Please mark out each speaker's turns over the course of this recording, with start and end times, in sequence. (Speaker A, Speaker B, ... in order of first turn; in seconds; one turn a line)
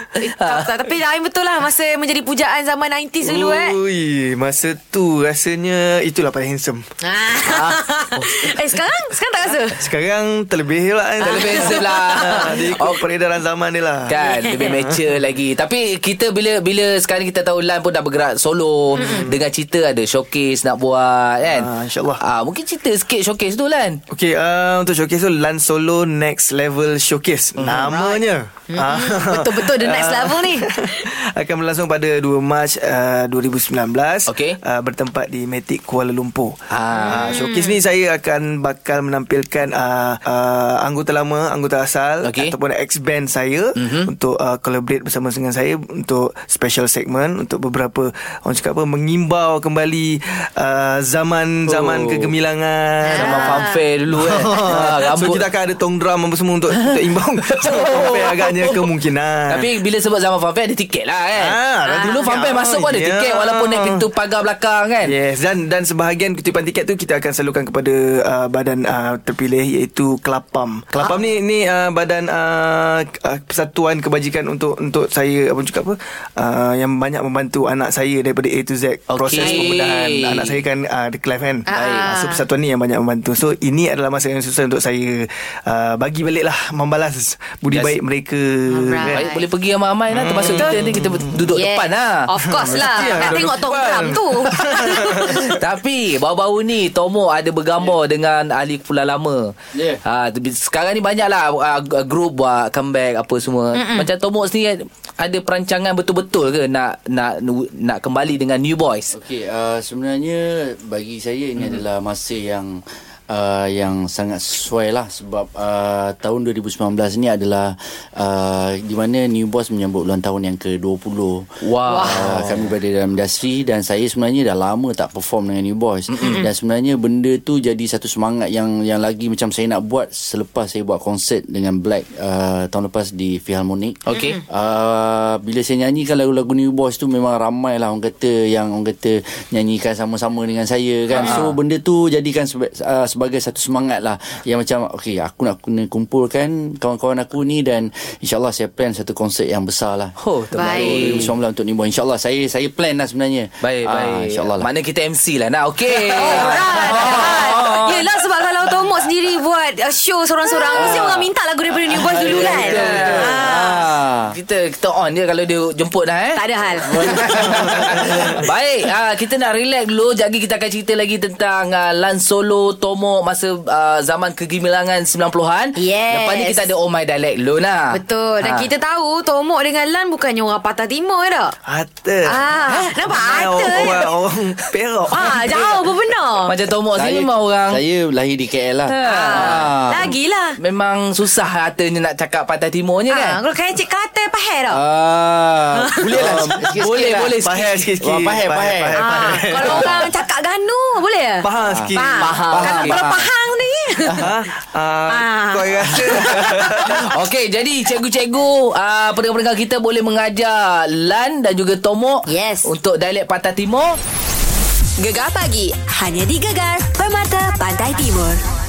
Speaker A: 0.2-3.8
Speaker B: 0.4-0.7
Speaker C: 3.2-6.8
Speaker A: 7.0-9.9
Speaker B: 7.4-7.8
Speaker C: 8.2-8.6
Speaker C: 9.8-15.1
Speaker A: 11.2-12.7
Speaker B: 11.2-13.0
Speaker B: 14.1-24.0
Speaker A: 14.2-14.7
Speaker A: 19.0-19.3
Speaker C: 21.4-22.2
Speaker C: 24.1-59.7
Speaker B: 27.6-28.1
Speaker A: 28.7-31.0
Speaker B: 34.3-34.6
Speaker B: 36.7-37.4
Speaker A: 37.0-37.8
Speaker B: 42.2-42.5
Speaker B: 43.8-44.1
Speaker B: 51.7-52.3
Speaker A: 53.1-53.8
Speaker B: 53.1-55.5
Speaker B: 56.7-58.8
Speaker B: 59.5-65.1
Speaker C: 61.4-64.1
Speaker A: 61.9-62.5
Speaker C: 65.1-89.2
Speaker B: 79.1-80.6
Speaker A: 79.4-79.8
Speaker A: 81.7-82.4
Speaker B: 81.7-82.1
Speaker A: 88.7-89.4
Speaker B: 89.0-92.3
Speaker C: 90.1-91.5
Speaker A: 91.5-95.5
Speaker C: 92.4-95.6
Speaker B: 95.5-109.1
Speaker D: 99.7-100.0
Speaker A: 103.7-104.1
Speaker D: 109.1-121.5
Speaker B: 121.6-122.7
Speaker A: 121.9-122.3
Speaker D: 122.0-154.7
Speaker B: 126.1-126.5
Speaker B: 134.1-134.4
Speaker A: 134.2-134.4
Speaker A: 141.1-141.4
Speaker B: 141.2-141.6
Speaker B: 150.2-151.3
Speaker A: 150.6-151.2
Speaker B: 153.6-158.1
Speaker A: 156.2-163.9
Speaker D: 156.2-157.6
Speaker D: 160.7-161.3
Speaker B: 160.7-161.0
Speaker B: 161.9-163.4
Speaker D: 161.9-164.3
Speaker B: 164.3-178.7
Speaker A: 166.3-167.3
Speaker D: 166.8-168.1
Speaker C: 167.4-168.4
Speaker A: 175.8-176.7
Speaker A: 177.9-181.6
Speaker C: 181.7-185.9
Speaker A: 182.3-184.1
Speaker A: 185.1-186.5
Speaker B: 186.4-187.8
Speaker D: 186.9-190.1
Speaker B: 188.9-189.7
Speaker A: 188.9-190.6
Speaker B: 190.6-193.4
Speaker A: 193.1-194.8
Speaker D: 194.7-197.3
Speaker A: 195.8-196.1
Speaker B: 196.1-197.9
Speaker C: 197.3-200.1
Speaker D: 198.0-199.0
Speaker A: 199.0-204.3
Speaker C: 201.4-202.9
Speaker D: 201.7-203.3
Speaker B: 202.2-203.0
Speaker C: 204.2-207.0
Speaker A: 205.1-206.6
Speaker B: 206.7-214.0
Speaker A: 212.3-212.7
Speaker E: 215.0-218.4